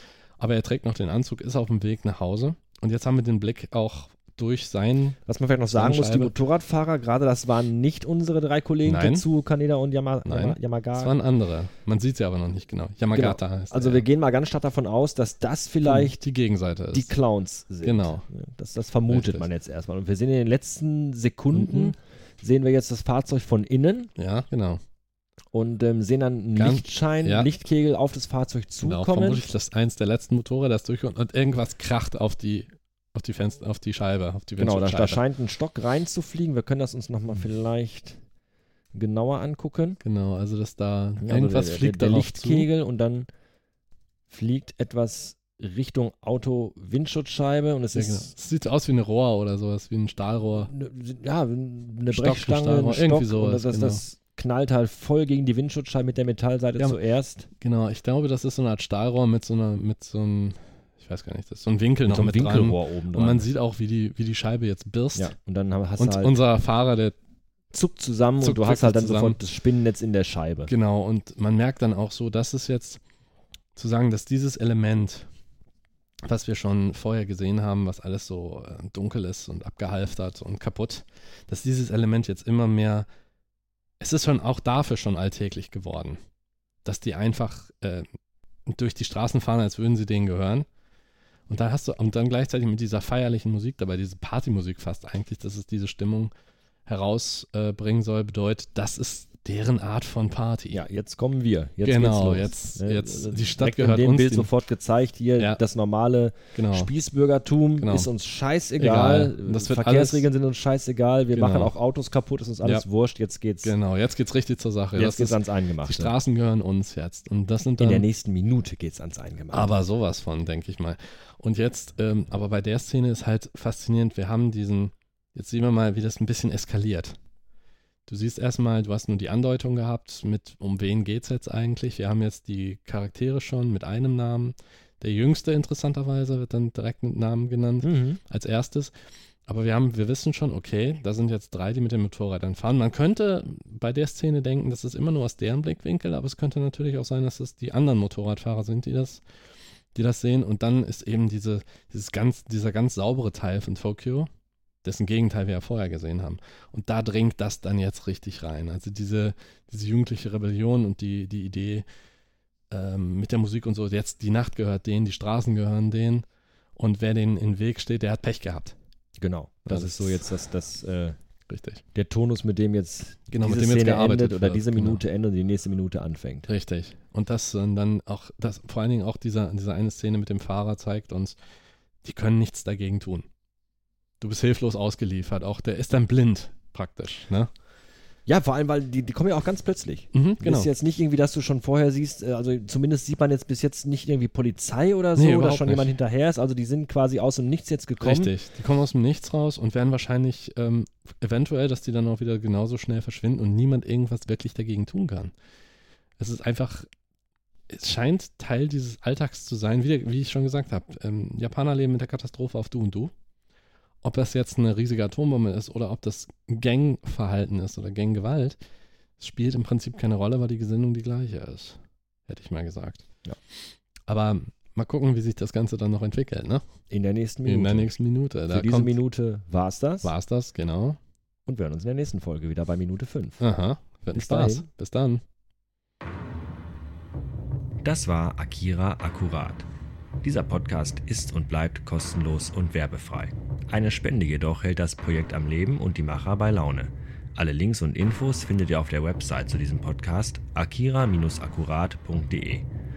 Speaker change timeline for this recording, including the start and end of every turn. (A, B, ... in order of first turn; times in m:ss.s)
0:00.4-0:05.2 A
0:05.3-0:11.1 B
0:05.7-0:06.3 A
0:08.8-0:09.3 A
0:10.3-0:14.0 A
0:13.1-0:16.2 B
0:15.8-0:17.1 A
0:16.9-0:24.1 B
0:17.8-0:18.2 A
0:19.1-0:19.5 A
0:21.5-0:22.0 A
0:24.2-0:24.8 A
0:25.5-0:29.4 B
0:26.6-0:27.5 A
0:28.8-0:35.2 A
0:34.6-0:38.2 B
0:39.0-0:40.0 B
0:40.0-0:42.7 A
0:41.2-0:43.3 B
0:44.3-0:48.3 B
0:48.0-0:50.7 A
0:50.7-0:57.5 B
0:52.1-0:54.0 A
0:57.6-1:05.3 A
1:02.1-1:03.5 B
1:05.2-1:06.4 B
1:06.0-1:07.2 A
1:07.7-1:10.7 B
1:08.4-1:09.4 A
1:10.7-1:13.0 A
1:13.8-1:15.3 A
1:16.2-1:23.1 A
1:24.0-1:26.2 A
1:26.8-1:28.1 A
1:28.7-1:30.7 A
1:31.5-1:36.3 A
1:36.9-1:40.8 A
1:40.7-1:53.8 B
1:41.8-1:44.5 A
1:46.6-1:46.9 A
1:47.8-1:48.1 A
1:48.8-1:50.3 A
1:51.3-1:51.7 A
1:53.6-1:58.1 A
1:55.0-1:56.1 B
1:57.8-1:59.8 B
1:59.5-2:07.2 A
2:08.1-2:18.9 A
2:17.8-2:18.2 B
2:19.5-2:29.2 A
2:30.0-2:34.3 A
2:34.8-2:41.8 A
2:42.7-2:46.2 A
2:46.8-2:48.8 A
2:49.2-2:51.2 B
2:49.7-2:50.3 A
2:51.5-2:51.8 A
2:51.9-2:56.5 B
2:53.3-2:55.0 A
2:56.5-3:01.4 A
3:02.0-3:03.3 A
3:04.2-3:07.5 A
3:08.3-3:18.3 B
3:10.1-3:10.7 A
3:15.2-3:15.9 A
3:18.0-3:25.3 A
3:26.2-3:26.9 A
3:27.7-3:33.1 A
3:34.0-3:38.6 A
3:39.2-3:43.0 A
3:44.1-3:46.6 A
3:46.9-3:47.9 B
3:47.4-3:49.0 A
3:48.5-3:50.1 B
3:50.0-3:51.0 A
3:51.5-3:53.4 B
3:53.4-3:55.2 A
3:54.1-3:54.7 B
3:57.8-3:59.7 B
4:00.2-4:12.7 B